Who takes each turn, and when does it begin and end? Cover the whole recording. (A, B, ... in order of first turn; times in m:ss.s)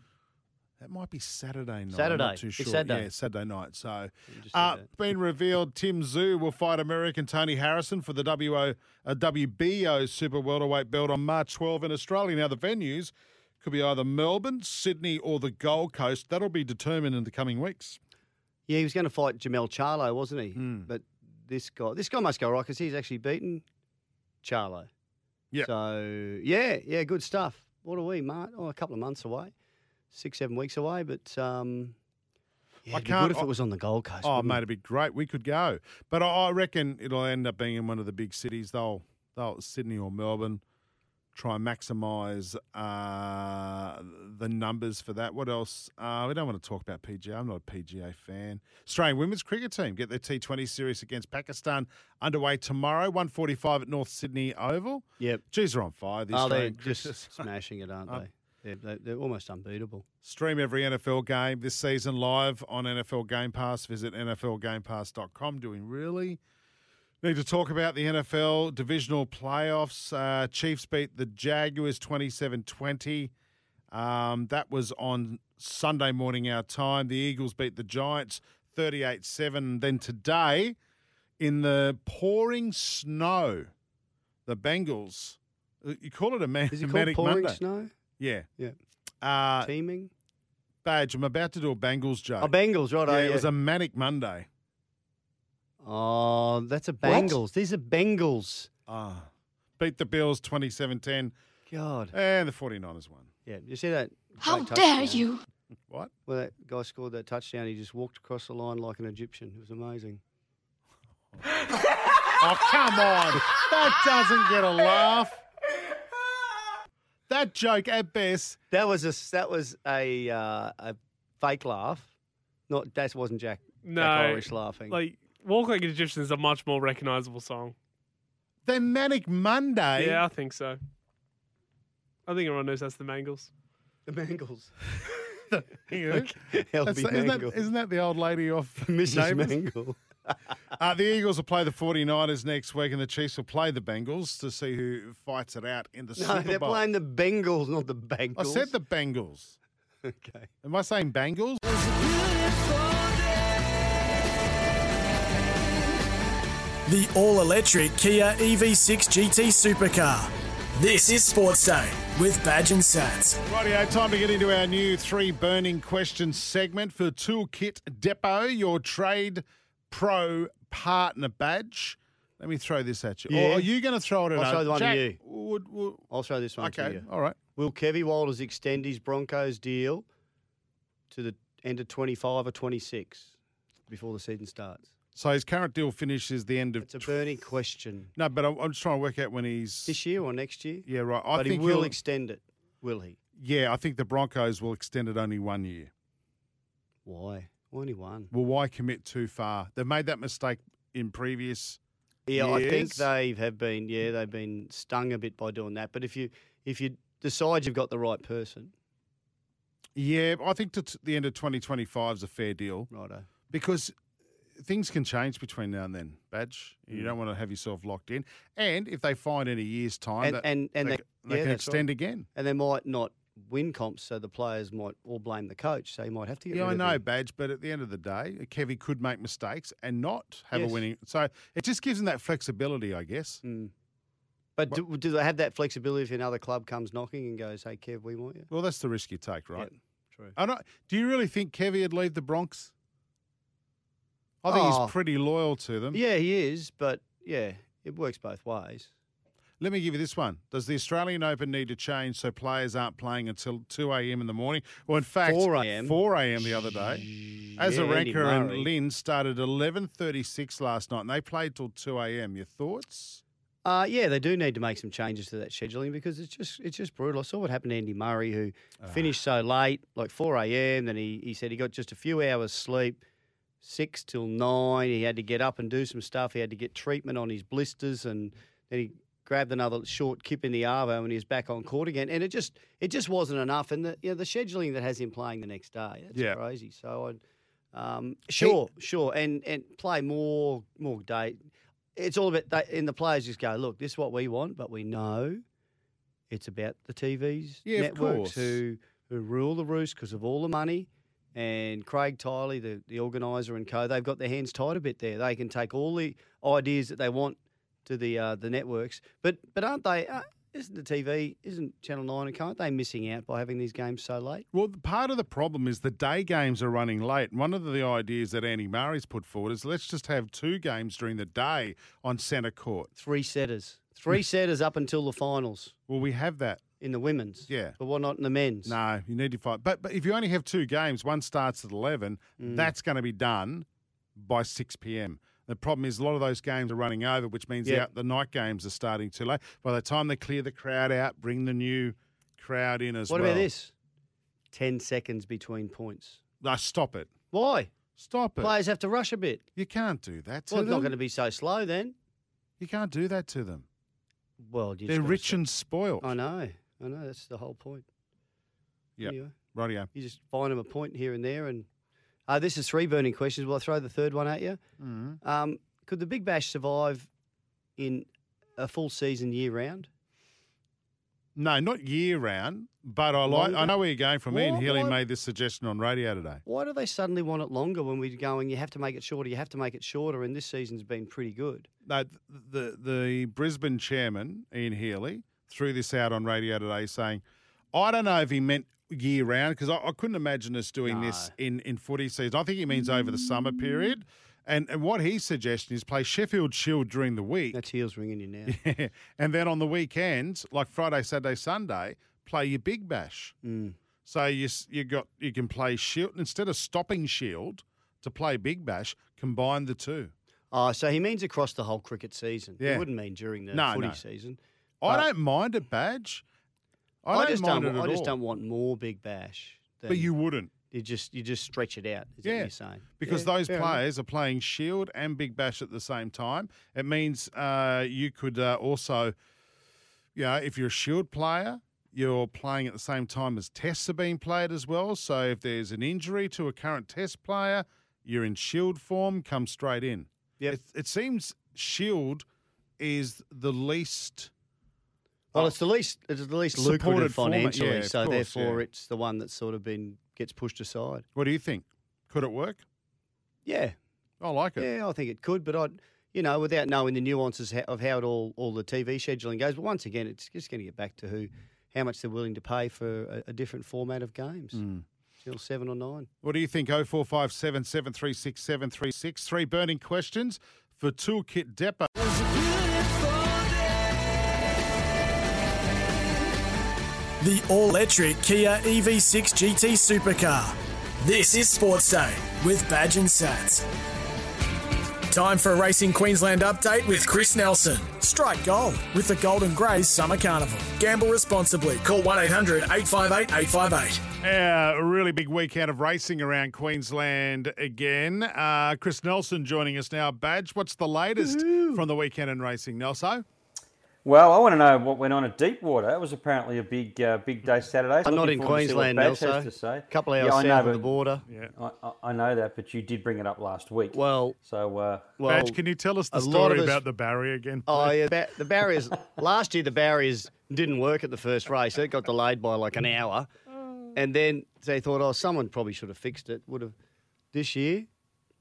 0:00.8-0:18.0 A
0:01.9-0:03.1 B
0:04.3-0:04.9 B
0:18.7-0:23.6 B
0:20.6-0:20.9 A
0:24.4-0:24.9 B
0:25.6-0:29.5 B
0:30.1-0:32.0 B
0:32.8-0:34.6 B
0:32.9-0:33.5 A
0:34.2-0:40.6 A
0:41.3-0:57.4 A
0:56.3-1:00.0 B
1:00.2-1:06.4 A
1:07.2-1:13.3 A
1:13.9-1:20.8 A
1:21.4-1:23.7 A
1:24.4-1:27.6 A
1:26.7-1:27.9 B
1:28.2-1:28.5 A
1:29.2-1:29.7 A
1:29.6-1:30.1 B
1:30.8-1:32.5 A
1:32.4-1:33.5 B
1:33.0-1:34.5 A
1:35.8-1:38.7 B
1:37.0-1:37.4 A
1:38.9-1:41.3 A
1:41.7-1:42.1 B
1:42.1-1:43.3 A
1:43.4-1:45.4 B
1:46.2-1:50.2 B
1:52.3-1:55.4 A
1:57.3-1:58.6 A
1:58.7-2:02.1 B
2:02.7-2:05.0 B
2:03.8-2:07.7 C
2:08.6-2:10.2 A
2:10.0-2:10.8 C
2:12.3-2:13.5 C
2:14.1-2:15.4 B
2:15.5-2:19.6 A
2:16.0-2:17.6 B
2:18.8-2:20.4 B
2:20.8-2:26.8 A
2:26.2-2:28.7 B
2:28.4-2:29.6 A
2:30.0-2:30.5 B
2:30.6-2:31.6 A
2:36.8-2:43.4 D
2:43.5-2:56.0 A
2:53.3-2:53.7 B
2:54.3-2:55.2 B
2:56.1-3:00.0 B
2:56.6-2:57.4 A
3:01.1-3:03.3 B
3:03.9-3:04.9 B
3:05.1-3:07.1 A
3:06.8-3:08.1 B
3:08.2-3:10.0 A
3:09.9-3:13.2 B
3:10.8-3:12.0 A
3:13.4-3:15.9 A
3:17.0-3:18.3 B
3:18.3-3:21.8 A
3:22.3-3:28.7 B
3:22.3-3:23.1 A
3:29.9-3:32.9 A
3:32.9-3:33.3 B
3:33.5-3:33.9 A
3:34.6-3:42.3 A
3:40.2-3:47.0 B
3:46.5-3:53.4 A
3:50.5-3:50.8 B
3:53.4-3:53.7 B
3:54.6-3:58.5 B
3:58.5-3:59.7 A
3:59.6-4:00.3 B
4:00.4-4:02.7 A
4:04.4-4:06.0 A
4:04.5-4:04.9 B
4:05.9-4:08.9 B
4:09.6-4:23.2 A
4:15.2-4:16.0 B
4:16.6-4:18.7 B
4:23.6-4:33.0 B
4:33.6-4:47.2 B
4:46.1-4:46.4 A
4:47.7-4:55.4 B
4:56.3-5:14.4 B
4:57.6-4:58.6 A
5:14.5-5:22.9 A
5:23.0-5:25.7 B
5:25.9-5:26.6 A
5:26.8-5:28.8 B
5:27.5-5:27.8 A
5:28.6-5:43.5 A
5:32.4-5:32.7 B
5:43.1-5:43.7 B
5:44.5-5:46.2 B
5:46.4-5:47.1 A
5:47.3-5:47.7 B
5:48.0-5:48.5 A
5:48.4-5:49.4 B
5:49.6-5:50.9 A
5:50.5-5:51.9 B
5:52.6-5:53.6 A
5:54.4-5:55.4 B
5:54.9-5:56.1 A
5:56.0-5:57.8 B
5:59.0-5:59.9 A
5:59.0-5:59.3 B
5:59.9-6:01.7 B
6:02.3-6:04.6 B
6:04.8-6:05.2 A
6:05.2-6:07.1 B
6:07.8-6:09.9 B
6:11.3-6:16.4 A
6:13.2-6:13.8 B
6:14.3-6:15.0 B
6:16.4-6:21.7 B
6:21.8-6:37.6 A
6:30.8-6:31.3 B
6:37.5-6:38.6 B
6:38.5-6:43.3 A
6:43.4-6:43.8 B
6:44.0-6:50.1 A
6:50.5-6:55.1 B
6:52.6-6:52.9 A
6:53.5-6:54.0 A
6:54.8-6:56.2 A
6:57.0-6:58.1 A
6:57.1-7:00.1 B
6:59.9-7:00.5 A
7:00.7-7:03.8 B
7:02.2-7:09.1 A
7:10.1-7:22.2 A
7:22.8-7:24.3 A
7:25.3-7:31.0 B
7:26.5-7:28.6 A
7:31.2-7:32.6 A
7:33.4-7:33.8 B
7:34.2-7:34.7 A
7:34.6-7:44.6 B
7:44.5-7:44.8 A
7:45.2-7:46.1 B
7:46.2-7:51.9 A
7:57.2-8:03.6 D
8:05.1-8:14.0 D
8:14.2-8:23.2 A
8:21.2-8:21.8 B
8:24.0-8:30.9 E
8:28.0-8:31.2 B
8:31.5-8:35.1 E
8:33.9-8:34.4 B
8:35.2-8:35.6 B
8:35.2-8:38.0 A
8:36.1-8:36.8 B
8:37.7-8:43.3 B
8:43.9-8:46.7 B
8:47.3-8:47.9 B